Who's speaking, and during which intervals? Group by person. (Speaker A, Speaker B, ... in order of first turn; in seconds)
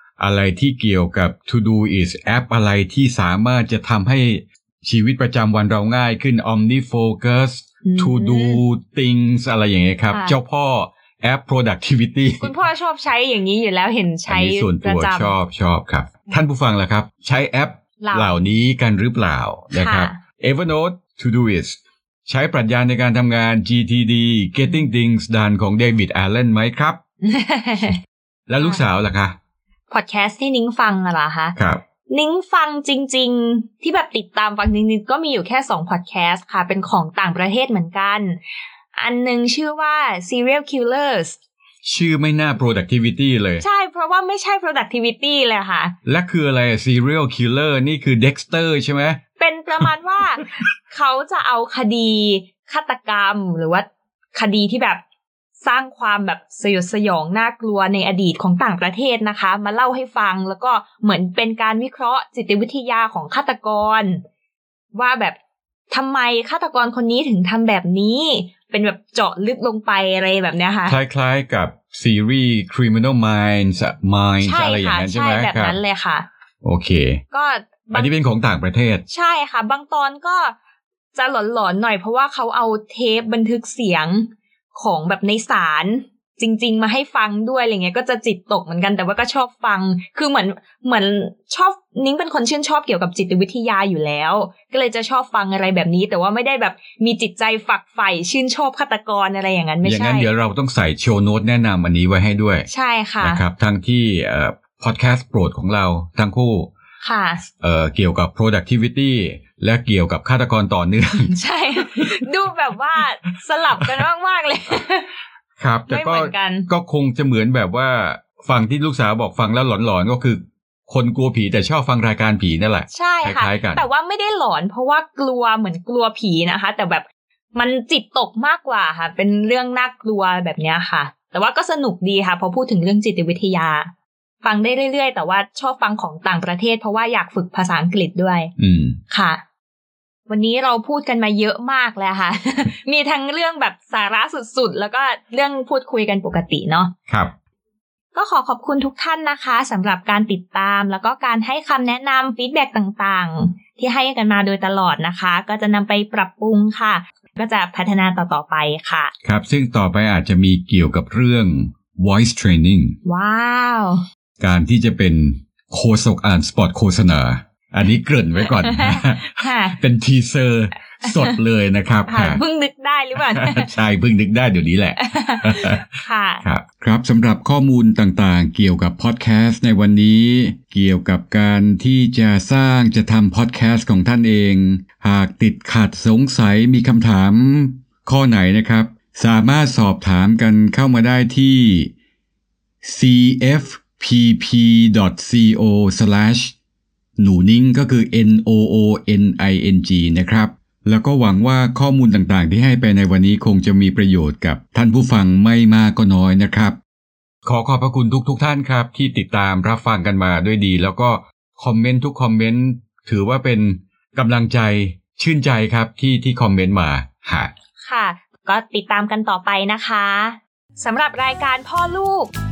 Speaker A: 0.2-12.5, 14.3-27.0, 28.5-29.4, 31.6-31.8, 41.8-43.6, 46.0-49.2, 70.9-75.8, 76.6-77.2, 77.9-79.0, 99.8-102.7, 103.2-106.7, 107.6-112.1, 115.6-123.8, 138.6-139.0, 159.2-162.9, 164.4-172.4, 173.2-175.8, 176.4-191.9, 192.8-196.5, 197.2-206.8, 207.4-217.5
Speaker B: 7.8-8.6, 10.1-10.3, 12.4-15.4, 18.0-18.3, 19.7-20.2, 27.2-28.0, 28.6-28.9, 29.9-31.6, 32.1-38.4, 38.9-41.4, 43.6-45.9, 49.4-55.0, 55.6-64.2, 64.9-65.4, 65.9-71.0, 74.4-76.3, 77.3-78.1, 79.1-80.5, 81.1-100.3, 102.7-103.4, 107.0-107.4, 111.3-115.1, 115.9-116.7, 122.9-127.0, 127.5-133.9, 134.4-138.5, 139.1-139.4, 140.3-146.9, 148.1-159.1, 163.0-164.0, 168.4-169.8, 171.0-171.4, 172.1-173.7, 175.0-176.4, 217.8-222.3